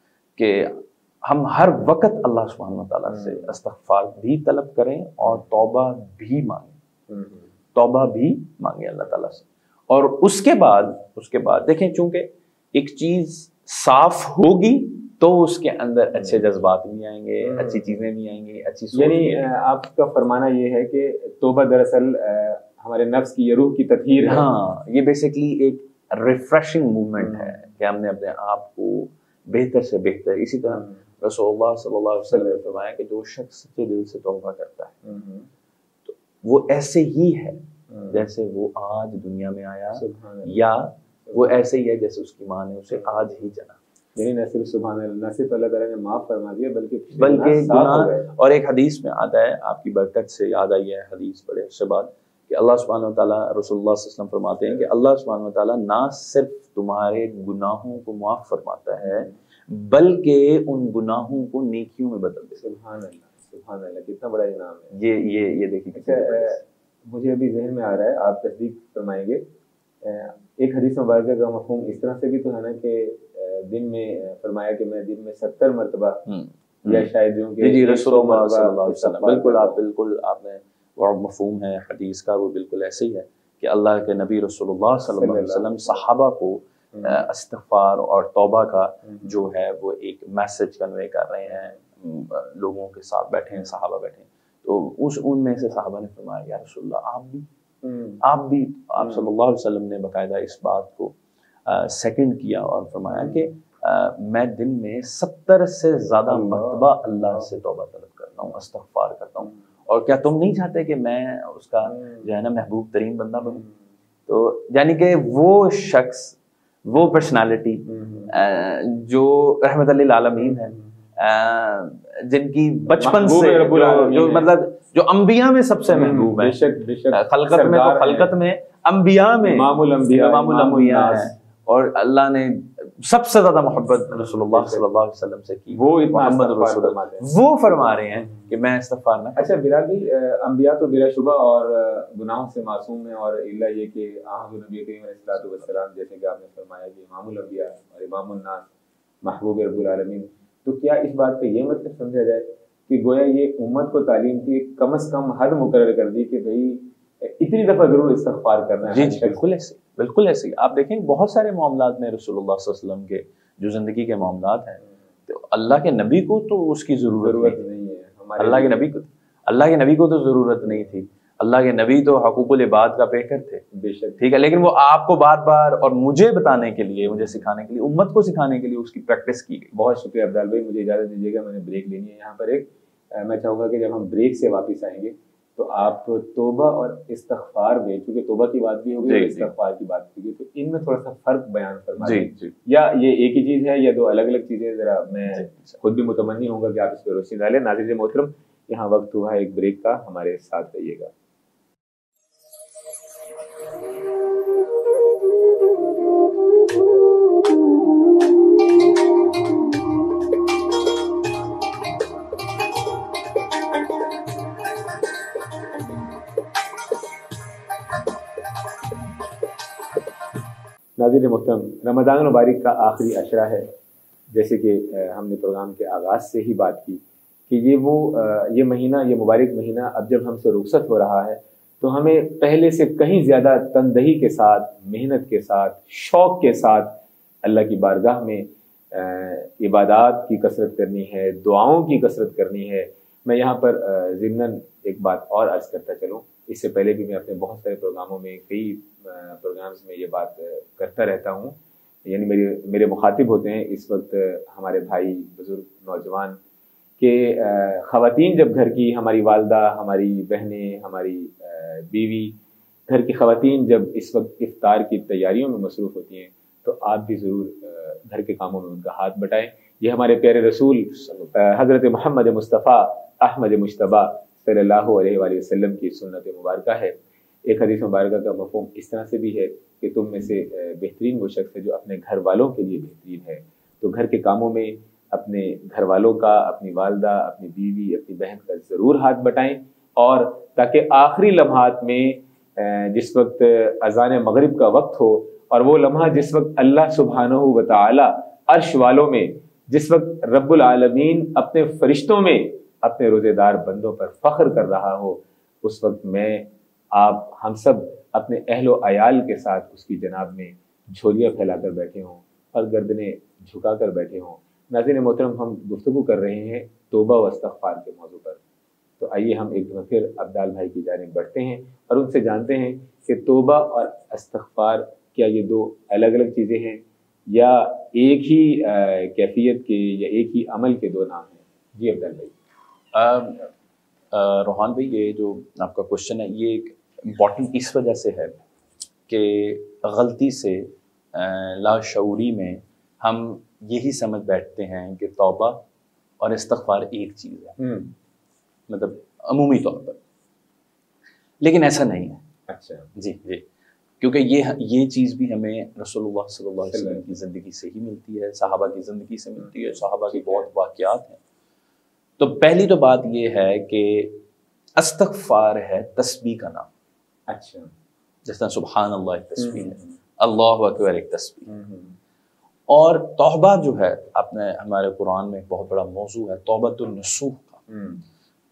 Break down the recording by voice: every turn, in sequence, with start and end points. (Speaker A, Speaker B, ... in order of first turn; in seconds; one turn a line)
Speaker A: 0.4-6.7
Speaker B: 3.1-3.5
Speaker B: 7.1-7.5
Speaker A: 7.7-19.5
Speaker B: 17.4-18.0
Speaker B: 18.9-24.4
Speaker A: 24.2-35.0
Speaker B: 27.2-27.5
Speaker B: 30.7-30.9
Speaker B: 32.3-32.7
Speaker B: 35.0-35.5
Speaker A: 36.0-43.8
Speaker B: 37.9-38.2
Speaker B: 39.9-40.6
Speaker B: 44.1-48.3
Speaker A: 47.2-62.6
Speaker B: 59.0-59.4
Speaker B: 62.6-64.9
Speaker A: 64.9-66.6
Speaker B: 65.9-69.4
Speaker B: 70.0-76.2
Speaker A: 76.3-97.5
Speaker B: 76.8-79.8
Speaker B: 85.1-85.7
Speaker B: 91.5-91.8
Speaker B: 97.8-98.2
Speaker A: 98.2-113.6
Speaker B: 99.0-99.2
Speaker B: 103.1-103.5
Speaker B: 106.3-107.5
Speaker B: 111.9-112.3
Speaker A: 114.3-126.5
Speaker B: 117.9-118.3
Speaker B: 120.4-120.8
Speaker B: 122.9-124.5
Speaker B: 125.9-128.3
Speaker A: 127.1-139.5
Speaker B: 129.4-131.3
Speaker B: 134.1-134.8
Speaker B: 135.7-137.3
Speaker B: 139.4-148.7
Speaker B: 149.2-159.4
Speaker A: 158.9-167.6
Speaker B: 167.2-168.8
Speaker A: 168.4-173.6
Speaker B: 173.7-174.2
Speaker A: 174.2-179.7
Speaker B: 179.7-201.1
Speaker A: 189.0-189.5
Speaker A: 192.0-192.6
Speaker A: 195.3-195.8
Speaker B: 221.0-223.7
Speaker B: 224.3-256.4
Speaker B: 257.0-262.4
Speaker B: 262.9-318.4
Speaker A: 270.9-271.3
Speaker B: 319.0-332.3
Speaker A: 332.9-333.4
Speaker A: 334.1-338.4
Speaker A: 339.1-345.6
Speaker A: 346.2-347.6
Speaker B: 347.6-347.9
Speaker A: 348.7-350.0
Speaker A: 351.4-352.2
Speaker B: 352.5-352.9
Speaker A: 352.9-353.4
Speaker A: 354.0-361.2
Speaker B: 356.7-357.1
Speaker B: 360.1-360.5
Speaker A: 362.2-364.2
Speaker A: 364.8-366.7
Speaker B: 367.3-367.7
Speaker A: 368.2-371.5
Speaker B: 369.4-369.9
Speaker B: 371.5-371.9
Speaker A: 372.7-377.6
Speaker B: 377.7-378.0